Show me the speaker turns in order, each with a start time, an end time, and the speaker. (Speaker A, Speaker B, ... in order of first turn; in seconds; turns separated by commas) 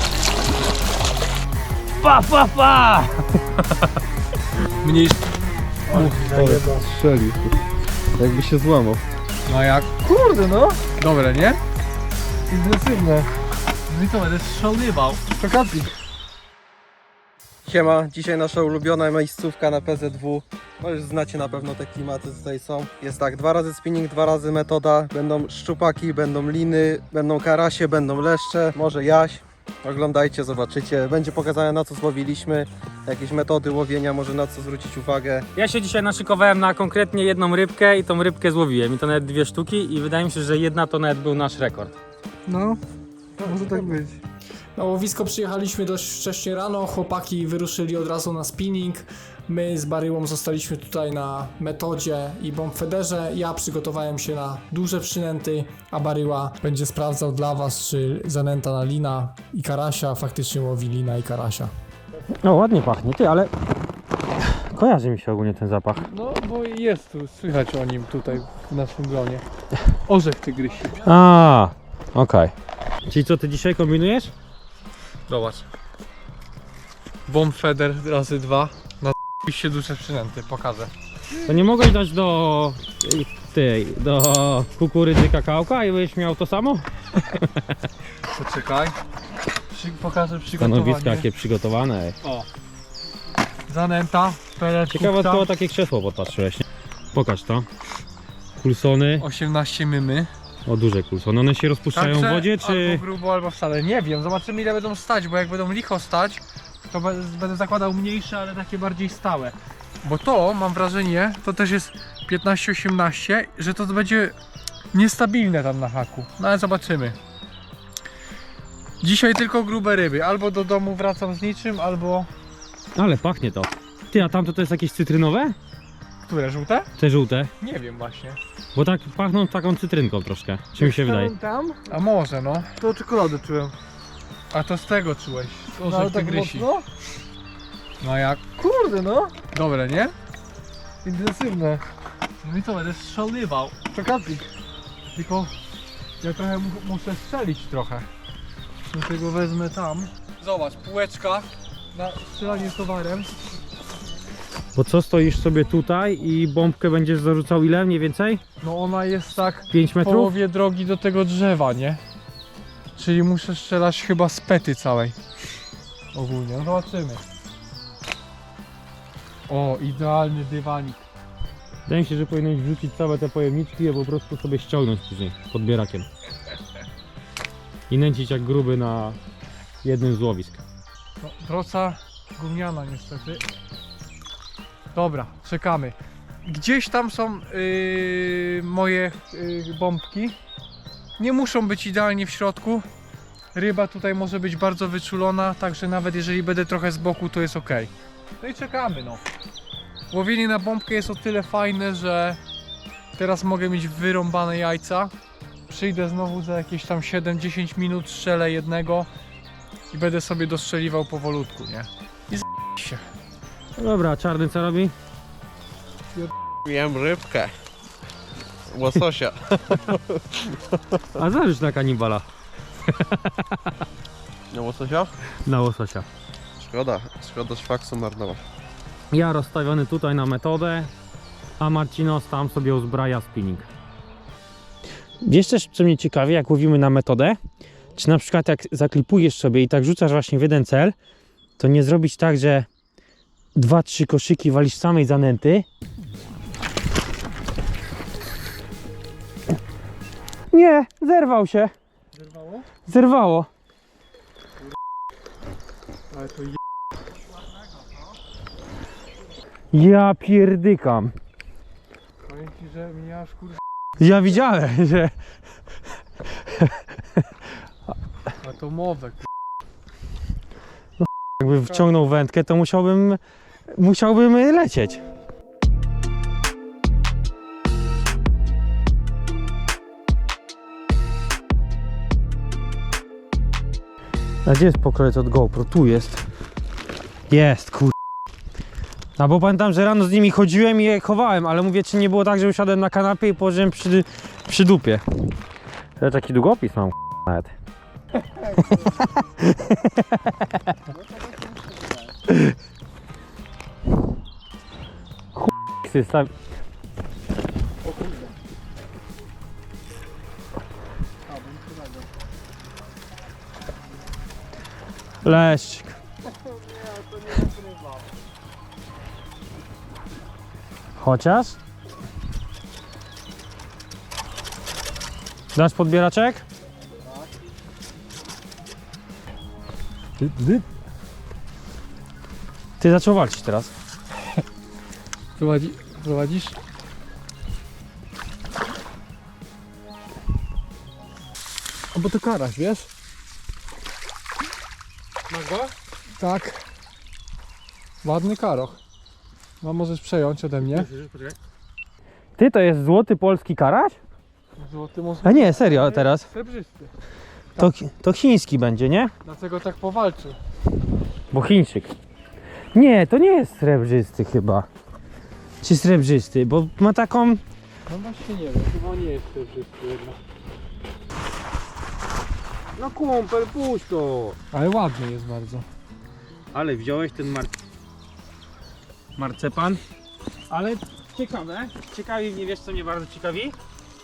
Speaker A: 2.0-3.2, Speaker B: 4.8-5.3, Speaker C: 5.9-7.6, Speaker D: 6.3-6.8, Speaker C: 8.2-9.1, Speaker B: 9.5-9.9, Speaker D: 10.0-10.9, Speaker B: 10.9-11.6, Speaker D: 12.5-13.3, Speaker B: 13.9-15.2, Speaker D: 15.2-16.0, Speaker C: 17.6-35.5, Speaker A: 35.6-42.0, Speaker D: 42.5-42.8, Speaker D: 43.4-44.2, Speaker B: 43.4-43.9, Speaker E: 44.8-61.7, Speaker A: 62.4-63.5, Speaker A: 64.4-66.1, Speaker B: 66.0-69.5, Speaker B: 70.1-71.1, Speaker A: 71.0-72.5, Speaker A: 73.1-74.3, Speaker B: 75.3-75.7, Speaker B: 77.3-80.9, Speaker A: 81.5-87.8, Speaker B: 88.3-89.0, Speaker B: 89.7-91.3, Speaker A: 90.6-92.2, Speaker B: 93.7-95.5, Speaker A: 94.9-97.7, Speaker A: 98.6-99.3, Speaker B: 99.2-100.3, Speaker A: 100.7-103.0, Speaker B: 101.9-114.4, Speaker B: 114.9-117.2, Speaker B: 119.0-122.3, Speaker A: 123.0-125.6, Speaker B: 126.3-126.9, Speaker A: 127.0-127.5, Speaker B: 127.6-128.4, Speaker A: 128.8-131.3, Speaker D: 130.8-131.8, Speaker B: 131.9-132.8, Speaker D: 132.8-133.8, Speaker B: 134.5-136.7, Speaker D: 135.8-136.9, Speaker B: 138.0-138.4, Speaker D: 138.6-139.4, Speaker B: 139.5-140.1, Speaker D: 141.0-141.8, Speaker B: 142.4-143.8, Speaker D: 143.9-144.5, Speaker B: 145.1-145.5, Speaker B: 146.2-148.1, Speaker B: 148.9-153.3, Speaker A: 154.8-158.4, Speaker B: 158.6-162.0, Speaker A: 159.7-160.3, Speaker B: 163.0-165.2, Speaker B: 166.1-167.2, Speaker B: 169.5-171.1, Speaker A: 171.9-176.1, Speaker A: 177.9-179.2, Speaker A: 179.8-180.6, Speaker B: 181.2-183.4, Speaker B: 184.9-190.4, Speaker B: 191.2-192.9, Speaker B: 193.5-199.2, Speaker B: 200.1-202.4, Speaker B: 203.2-205.1, Speaker B: 205.7-209.1, Speaker B: 209.9-213.1, Speaker A: 213.8-214.9, Speaker C: 216.7-217.6, Speaker C: 218.7-221.0, Speaker A: 221.2-222.2, Speaker A: 222.8-223.7, Speaker C: 224.5-225.1, Speaker A: 225.4-226.1, Speaker C: 226.6-228.4, Speaker A: 229.1-230.9, Speaker A: 231.6-233.7, Speaker A: 235.2-237.4, Speaker A: 238.0-240.9, Speaker A: 241.6-242.7, Speaker A: 243.6-245.7, Speaker A: 250.5-251.7, Speaker B: 252.1-252.7, Speaker A: 252.9-253.5, Speaker B: 256.1-256.6, Speaker A: 259.7-261.2, Speaker B: 262.3-263.6, Speaker A: 264.0-265.1, Speaker A: 266.5-266.7, Speaker B: 268.4-269.2, Speaker A: 271.0-275.1, Speaker B: 271.4-271.9, Speaker A: 284.4-286.2, Speaker A: 287.3-287.9, Speaker A: 289.2-295.0, Speaker A: 296.0-297.5, Speaker D: 298.6-298.8, Speaker A: 299.0-300.7, Speaker D: 300.9-302.1, Speaker A: 302.3-302.6, Speaker A: 305.4-306.3, Speaker D: 307.8-308.3, Speaker D: 311.3-312.1, Speaker A: 315.2-315.9, Speaker D: 316.3-318.1, Speaker A: 321.0-321.6, Speaker A: 325.5-326.4, Speaker B: 330.2-330.6, Speaker A: 332.8-333.7, Speaker B: 335.4-336.6, Speaker B: 341.9-342.9, Speaker A: 345.3-345.8, Speaker B: 346.2-346.6, Speaker B: 348.0-348.8, Speaker B: 349.6-350.9, Speaker A: 350.6-351.4, Speaker A: 352.4-354.0, Speaker B: 354.6-356.9, Speaker A: 355.2-356.3, Speaker A: 357.6-359.1, Speaker B: 359.2-360.4, Speaker A: 361.3-361.9, Speaker A: 362.7-364.7, Speaker A: 365.6-367.4, Speaker B: 367.9-370.2, Speaker A: 372.8-374.4, Speaker B: 374.5-375.7, Speaker A: 376.5-377.6, Speaker A: 379.2-379.8, Speaker A: 380.5-383.6